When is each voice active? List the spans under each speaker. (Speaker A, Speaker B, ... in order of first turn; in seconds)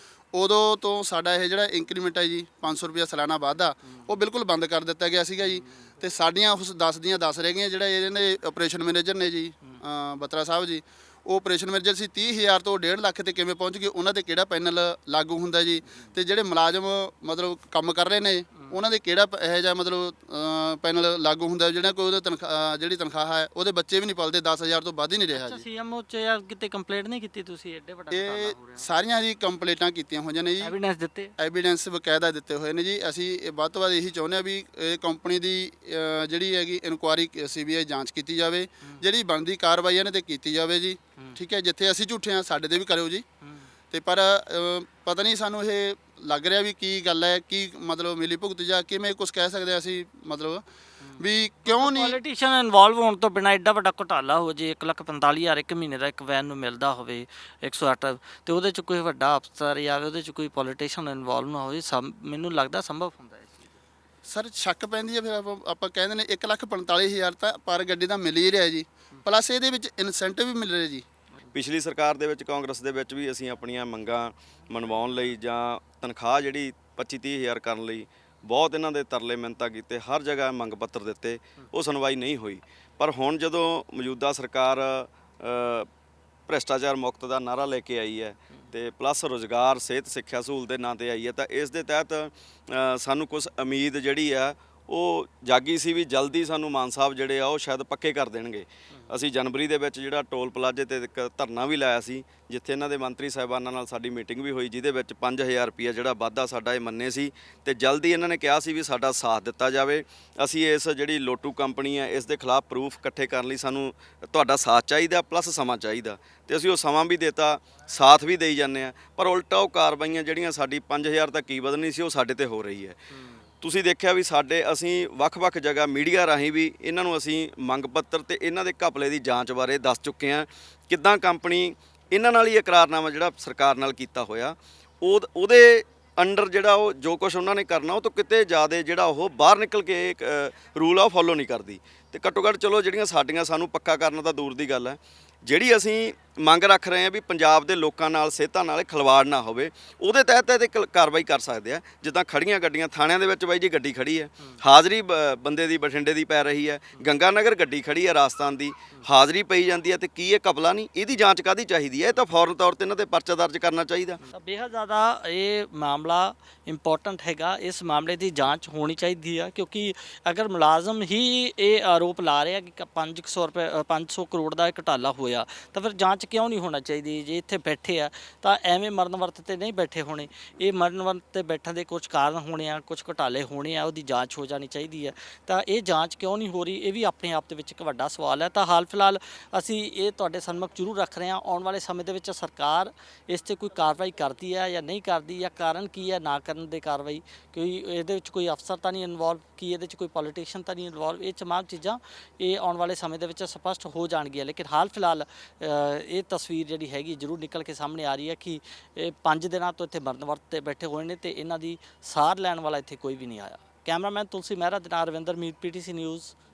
Speaker A: 0.3-25.6, 28.1-30.8, 31.4-43.2, 43.9-50.6, 51.2-52.2, 64.3-71.0
Speaker B: 3.9-4.2, 5.5-5.9, 25.4-28.9, 30.6-31.3, 43.4-43.7, 51.0-63.8, 123.1-123.4, 164.3-216.3
Speaker C: 71.5-85.9, 86.5-123.0, 123.6-164.2